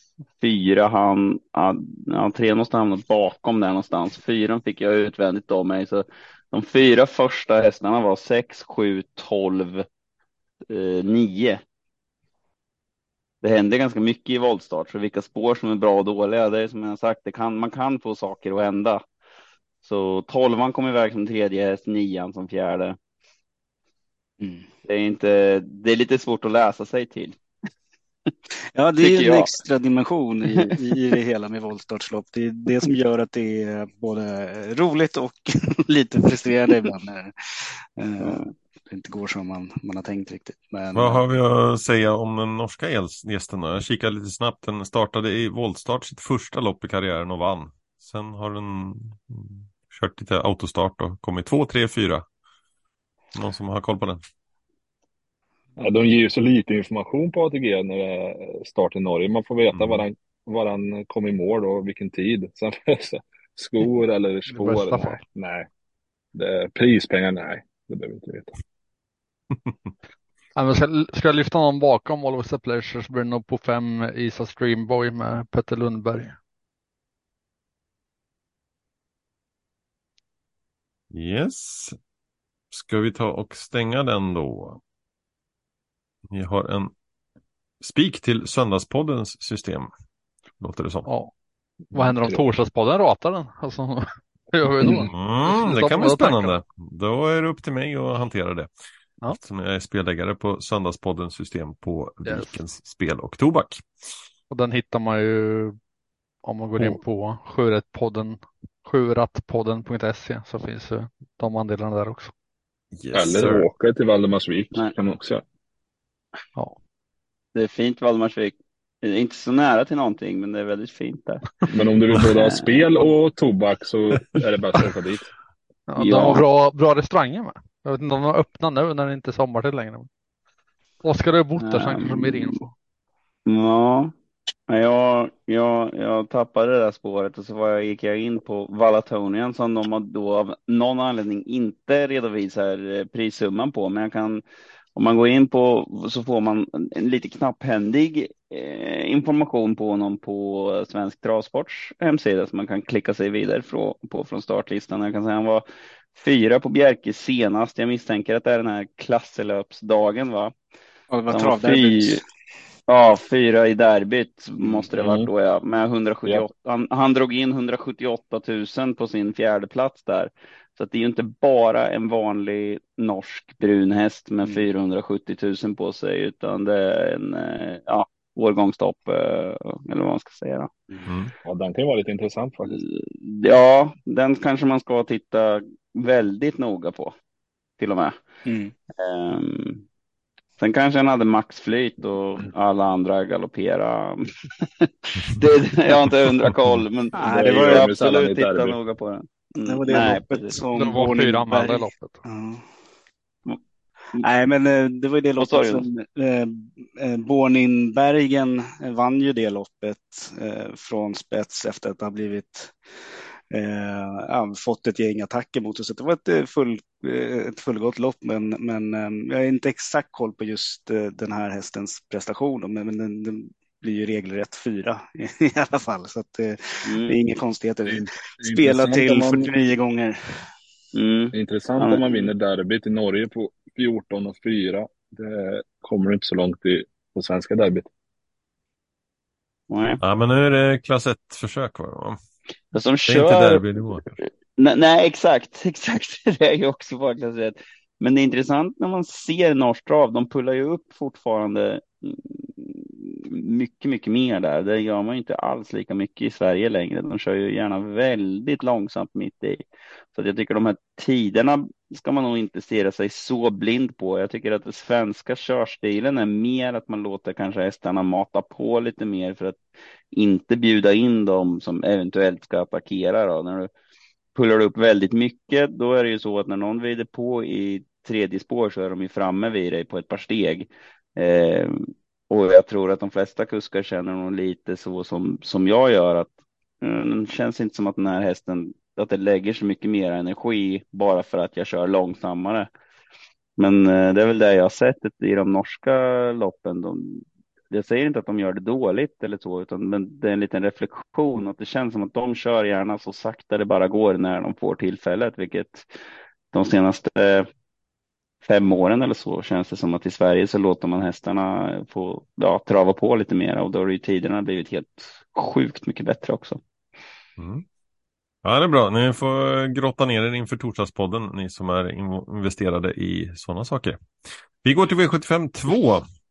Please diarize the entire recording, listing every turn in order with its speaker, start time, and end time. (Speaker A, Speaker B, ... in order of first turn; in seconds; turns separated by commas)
Speaker A: 0.4-9.9, Speaker A: 10.7-11.6, Speaker A: 13.4-19.0, Speaker A: 19.8-23.0, Speaker B: 24.4-24.7, Speaker A: 24.9-27.4, Speaker B: 28.8-41.2, Speaker A: 29.0-29.5, Speaker A: 30.5-30.7, Speaker A: 38.2-38.5, Speaker C: 41.0-52.2, Speaker C: 53.3-54.2, Speaker D: 55.8-65.7, Speaker C: 59.7-60.0, Speaker E: 64.5-65.2, Speaker D: 66.3-68.5, Speaker E: 70.6-76.4, Speaker C: 81.1-82.0, Speaker C: 82.7-84.8, Speaker C: 86.3-86.9, Speaker C: 87.8-89.9, Speaker C: 90.6-91.1, Speaker E: 91.1-91.3, Speaker D: 91.9-92.4, Speaker E: 91.9-96.6, Speaker C: 95.1-98.7, Speaker C: 99.3-103.8, Speaker E: 104.5-105.8, Speaker E: 106.4-112.3, Speaker C: 113.0-113.7, Speaker D: 113.1-115.4, Speaker A: 117.5-121.6, Speaker D: 121.7-125.3, Speaker A: 122.4-122.8, Speaker E: 125.9-130.1, Speaker A: 126.0-126.4, Speaker E: 131.0-132.7, Speaker A: 131.6-132.6, Speaker A: 133.5-134.1, Speaker A: 134.7-144.4, Speaker A: 145.0-160.5, Speaker B: 161.1-162.2, Speaker A: 161.3-162.2, Speaker A: 162.9-180.7, Speaker D: 164.9-165.3, Speaker C: 181.1-181.3, Speaker D: 181.4-182.8, Speaker A: 182.7-187.2, Speaker A: 187.8-188.2, Speaker B: 188.4-188.7, Speaker A: 189.0-189.8, Speaker A: 190.6-200.6, Speaker B: 197.2-197.9, Speaker D: 197.3-198.8, Speaker B: 199.7-202.7, Speaker E: 200.8-202.2, Speaker B: 204.2-212.7, Speaker A: 205.4-205.8, Speaker B: 213.5-230.4, Speaker A: 226.8-227.2, Speaker D: 227.9-229.5, Speaker A: 230.9-232.3, Speaker D: 231.3-237.9, Speaker A: 239.7-240.0, Speaker C: 240.0-242.2, Speaker A: 242.7-259.6, Speaker C: 243.1-244.2, Speaker A: 260.1-269.6, Speaker A: 270.1-273.7, Speaker A: 274.4-292.7, Speaker A: 293.6-305.9, Speaker A: 306.5-307.5, Speaker A: 308.4-316.6, Speaker C: 317.4-317.6, Speaker C: 318.4-324.0, Speaker C: 324.6-326.0